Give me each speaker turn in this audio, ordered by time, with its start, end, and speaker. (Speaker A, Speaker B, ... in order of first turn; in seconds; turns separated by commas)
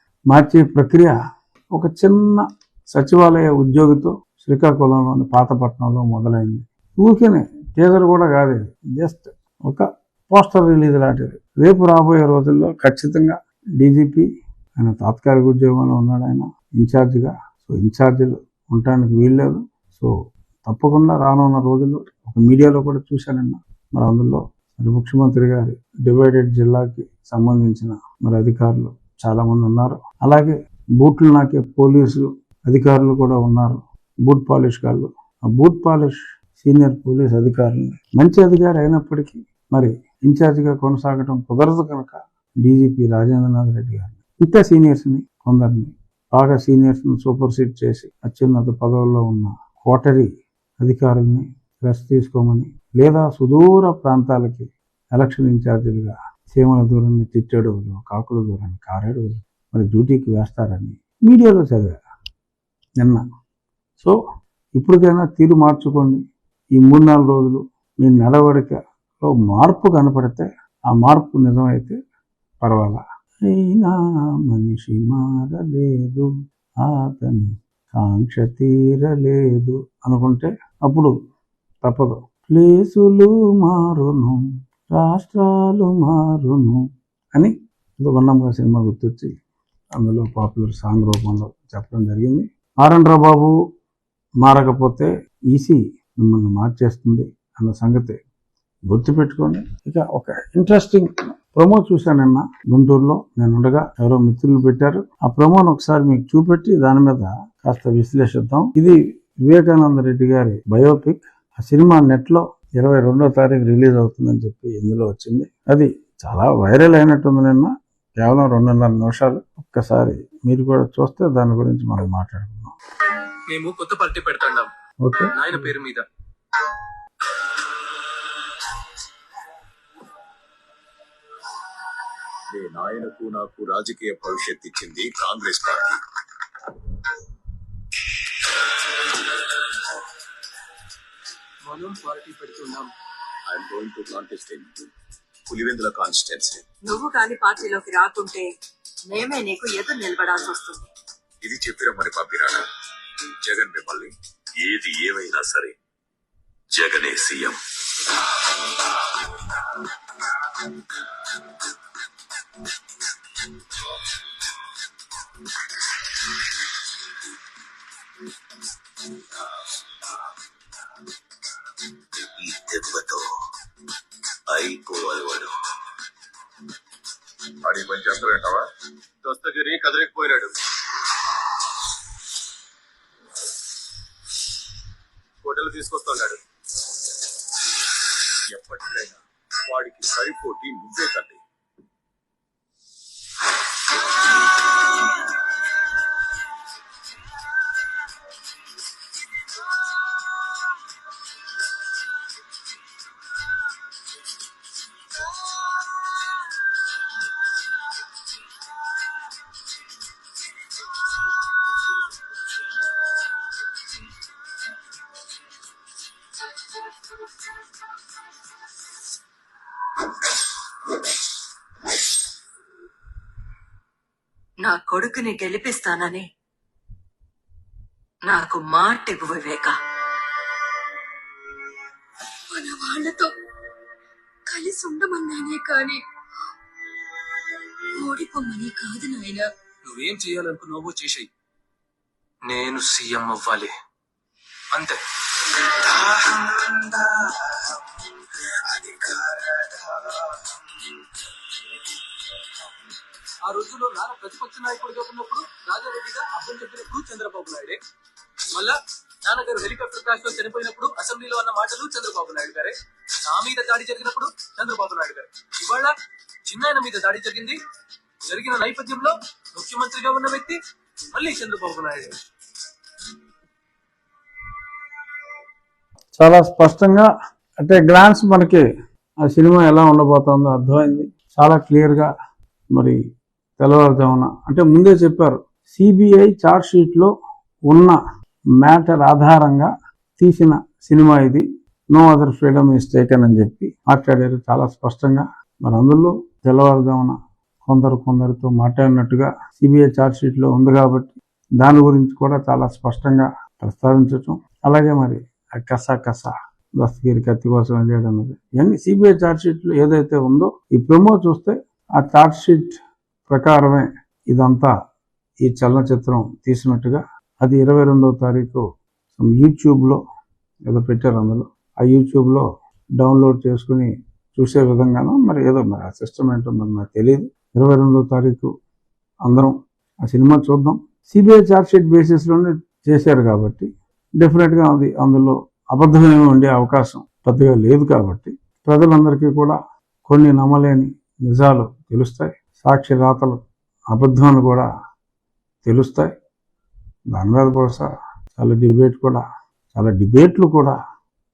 Speaker A: 0.3-1.1, Speaker A: 1.7-20.1, Speaker A: 20.6-50.3, Speaker A: 50.8-62.0, Speaker A: 64.8-66.2, Speaker A: 66.8-72.0, Speaker A: 72.6-76.3, Speaker A: 76.8-81.1, Speaker A: 81.8-84.4, Speaker A: 84.9-86.8, Speaker A: 87.3-89.3, Speaker A: 90.0-93.5, Speaker A: 94.4-98.2, Speaker A: 98.9-122.7, Speaker B: 123.5-124.7, Speaker A: 125.0-125.7, Speaker B: 125.3-126.0, Speaker C: 132.5-136.0, Speaker B: 141.7-142.9, Speaker C: 143.5-144.7, Speaker C: 145.5-146.7, Speaker D: 146.9-148.5, Speaker D: 149.1-150.8, Speaker C: 151.4-152.6, Speaker C: 153.4-155.8, Speaker C: 156.7-157.6, Speaker C: 172.4-173.3, Speaker C: 174.5-175.6, Speaker C: 177.6-178.7, Speaker C: 179.3-180.5, Speaker C: 185.4-186.3, Speaker C: 188.5-191.4, Speaker D: 224.6-226.3, Speaker D: 228.3-229.8, Speaker E: 232.5-233.3, Speaker E: 234.5-236.0, Speaker D: 238.0-239.4, Speaker B: 239.8-241.3, Speaker B: 242.5-243.7, Speaker B: 244.7-245.0, Speaker B: 245.8-246.8, Speaker B: 248.6-250.5, Speaker B: 253.4-257.8, Speaker B: 258.5-265.9, Speaker B: 266.5-267.6, Speaker B: 268.3-270.6, Speaker B: 271.1-272.2, Speaker A: 276.2-278.6, Speaker A: 279.2-282.1, Speaker A: 282.7-283.0, Speaker A: 283.6-287.1, Speaker A: 287.7-288.0, Speaker A: 288.6-314.7, Speaker A: 315.4-318.6, Speaker A: 319.1-320.0, Speaker A: 320.7-322.5, Speaker A: 323.0-328.5, Speaker A: 329.2-333.7, Speaker A: 334.2-343.4, Speaker A: 343.9-344.7, Speaker A: 345.6-346.1, Speaker A: 347.1-349.2, Speaker A: 349.7-350.8